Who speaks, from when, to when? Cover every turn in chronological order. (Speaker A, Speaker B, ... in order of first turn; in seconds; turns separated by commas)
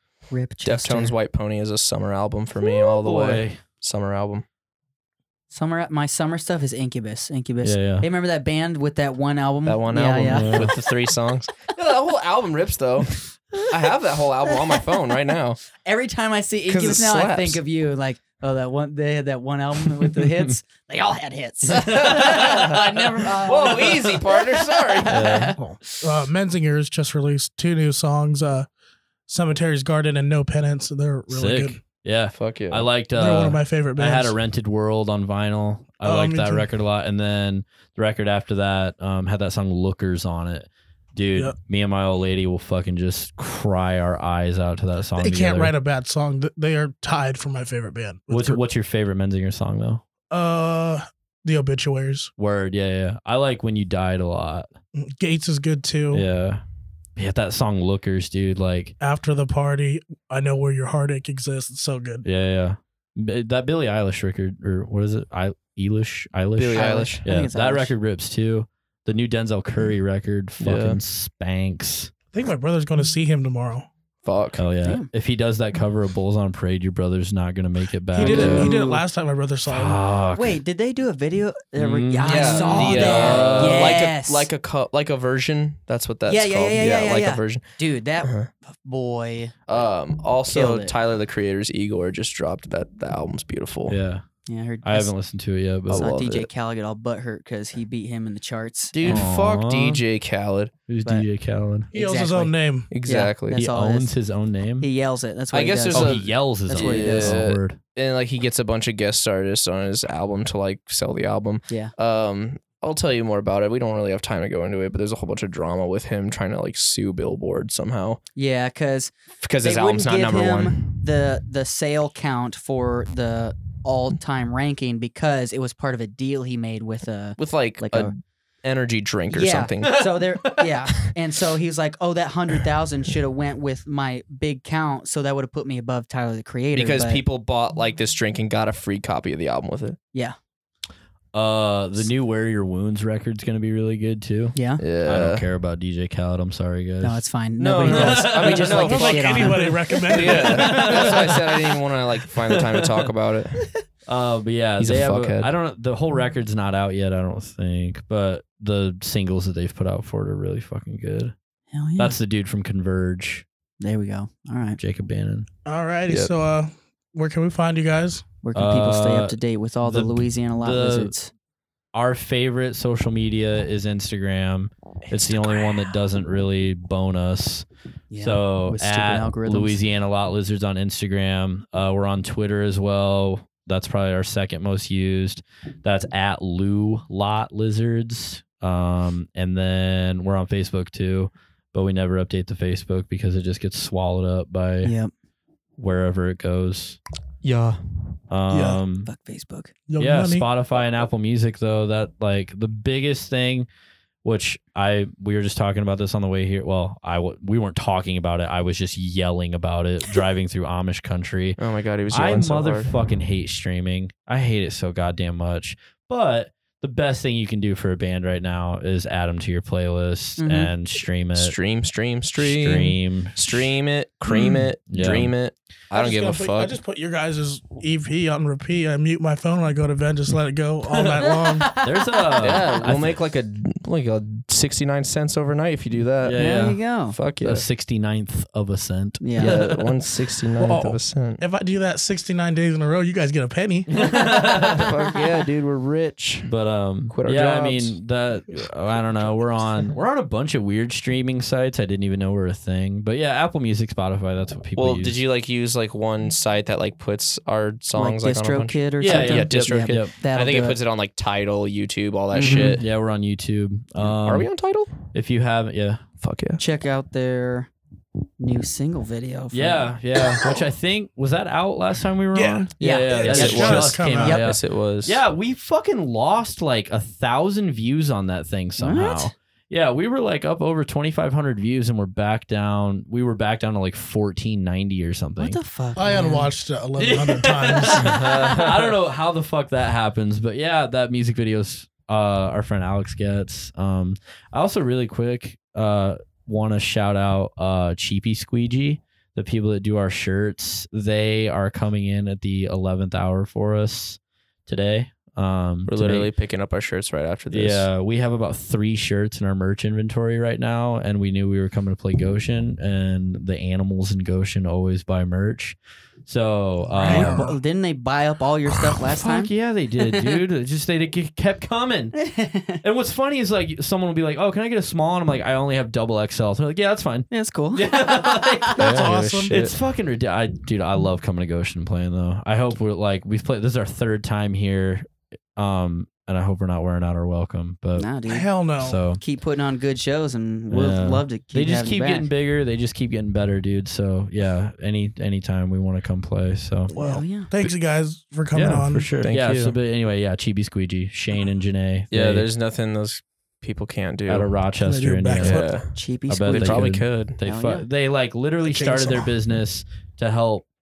Speaker A: 0.3-1.1, Speaker B: 0.6-4.4, Speaker C: 3.0-3.6, Speaker A: 5.5-10.7, Speaker C: 7.6-8.1, Speaker B: 9.6-15.6, Speaker C: 10.2-10.7, Speaker A: 15.8-25.6, Speaker B: 16.7-17.6, Speaker B: 21.7-25.4, Speaker C: 21.7-22.4, Speaker C: 25.1-25.6, Speaker D: 25.6-28.7, Speaker D: 29.3-31.8, Speaker C: 31.3-45.7, Speaker B: 32.3-32.9, Speaker D: 33.1-34.4, Speaker D: 36.0-36.7, Speaker D: 45.2-48.6, Speaker C: 48.3-50.0, Speaker D: 50.3-52.3, Speaker C: 52.4-54.7, Speaker D: 55.0-56.2, Speaker C: 56.1-56.6, Speaker C: 57.2-59.0, Speaker D: 59.0-62.2, Speaker C: 62.2-72.1, Speaker B: 66.5-67.2, Speaker A: 66.7-67.9, Speaker B: 70.6-71.0, Speaker D: 72.3-73.9, Speaker B: 74.2-74.6, Speaker C: 74.6-78.7, Speaker D: 78.1-80.0, Speaker A: 78.2-79.0, Speaker C: 79.7-80.6, Speaker A: 80.3-84.5, Speaker C: 81.8-83.8, Speaker B: 82.2-87.7, Speaker A: 86.3-89.6, Speaker B: 88.2-88.5, Speaker B: 89.7-94.0, Speaker A: 90.5-90.9, Speaker C: 93.9-94.2, Speaker A: 94.5-95.1, Speaker C: 94.8-96.1, Speaker B: 95.9-96.5, Speaker A: 95.9-99.2, Speaker B: 98.9-100.7, Speaker C: 99.0-100.0, Speaker C: 100.9-101.9, Speaker D: 101.9-102.9, Speaker A: 101.9-104.1, Speaker B: 102.9-103.6, Speaker C: 103.5-104.9, Speaker A: 104.8-107.4, Speaker B: 105.5-118.2, Speaker C: 105.9-107.8, Speaker A: 118.3-128.1, Speaker B: 119.4-121.0, Speaker B: 127.4-130.7, Speaker A: 129.3-137.2, Speaker B: 136.7-140.0, Speaker C: 141.3-147.2, Speaker A: 144.5-144.8, Speaker B: 144.8-145.5, Speaker A: 147.0-149.8, Speaker B: 147.6-153.7, Speaker C: 147.8-149.1, Speaker D: 148.8-151.3, Speaker C: 150.1-151.7, Speaker C: 152.5-153.1, Speaker C: 154.1-161.3, Speaker B: 154.8-155.5, Speaker A: 161.7-162.2, Speaker C: 162.0-163.4, Speaker A: 163.8-164.8, Speaker C: 164.8-165.5, Speaker D: 165.7-168.2, Speaker B: 166.1-166.3, Speaker A: 168.4-171.3, Speaker C: 168.5-171.1, Speaker C: 171.9-177.7, Speaker B: 175.1-175.9, Speaker A: 178.1-179.8, Speaker C: 178.2-194.9, Speaker A: 194.8-195.1, Speaker C: 195.8-197.0, Speaker B: 197.4-198.2, Speaker C: 198.3-199.1, Speaker D: 198.5-198.8, Speaker A: 199.1-199.7, Speaker D: 199.9-200.5, Speaker C: 200.0-203.7, Speaker C: 204.2-221.6, Speaker B: 211.6-212.9, Speaker A: 220.4-220.7, Speaker B: 221.3-226.8, Speaker C: 222.4-223.6, Speaker C: 224.4-225.3, Speaker D: 225.9-231.8, Speaker C: 230.9-233.2, Speaker A: 231.6-232.3, Speaker B: 232.4-236.5, Speaker C: 236.2-236.8, Speaker A: 236.3-237.2, Speaker B: 237.1-237.7, Speaker C: 237.4-239.9, Speaker A: 239.2-239.6, Speaker B: 239.4-241.4, Speaker D: 240.6-243.9, Speaker C: 243.9-244.9, Speaker B: 244.0-246.5, Speaker C: 246.4-255.2, Speaker B: 247.1-248.0, Speaker B: 254.8-262.9, Speaker A: 257.9-260.8, Speaker C: 259.0-260.1, Speaker A: 262.3-262.8, Speaker C: 262.5-264.5, Speaker B: 264.0-264.9, Speaker C: 265.1-266.0, Speaker B: 266.2-266.6, Speaker A: 266.6-267.7, Speaker A: 268.4-269.9, Speaker C: 269.5-285.6, Speaker D: 272.3-274.4, Speaker B: 272.8-275.2, Speaker A: 272.8-274.5, Speaker A: 278.8-279.3, Speaker A: 285.4-286.5, Speaker D: 285.9-288.3, Speaker C: 287.0-306.3, Speaker B: 288.0-288.9, Speaker B: 305.9-307.9, Speaker C: 307.5-317.5, Speaker D: 317.0-317.5, Speaker A: 317.0-320.4, Speaker C: 318.9-322.2, Speaker A: 322.1-322.8, Speaker C: 322.8-338.1, Speaker A: 327.3-328.7, Speaker B: 328.8-329.7, Speaker D: 328.8-329.6, Speaker A: 338.0-338.5, Speaker D: 338.3-339.0, Speaker C: 338.8-339.2, Speaker A: 339.2-342.3, Speaker C: 340.7-346.9, Speaker D: 346.9-349.1, Speaker A: 346.9-347.5, Speaker C: 348.5-352.5, Speaker B: 348.9-349.8, Speaker B: 352.1-354.5, Speaker C: 354.3-355.7, Speaker D: 354.8-355.8, Speaker B: 355.4-355.9, Speaker A: 355.9-357.9, Speaker C: 356.3-360.6, Speaker B: 356.5-357.4, Speaker D: 358.6-359.3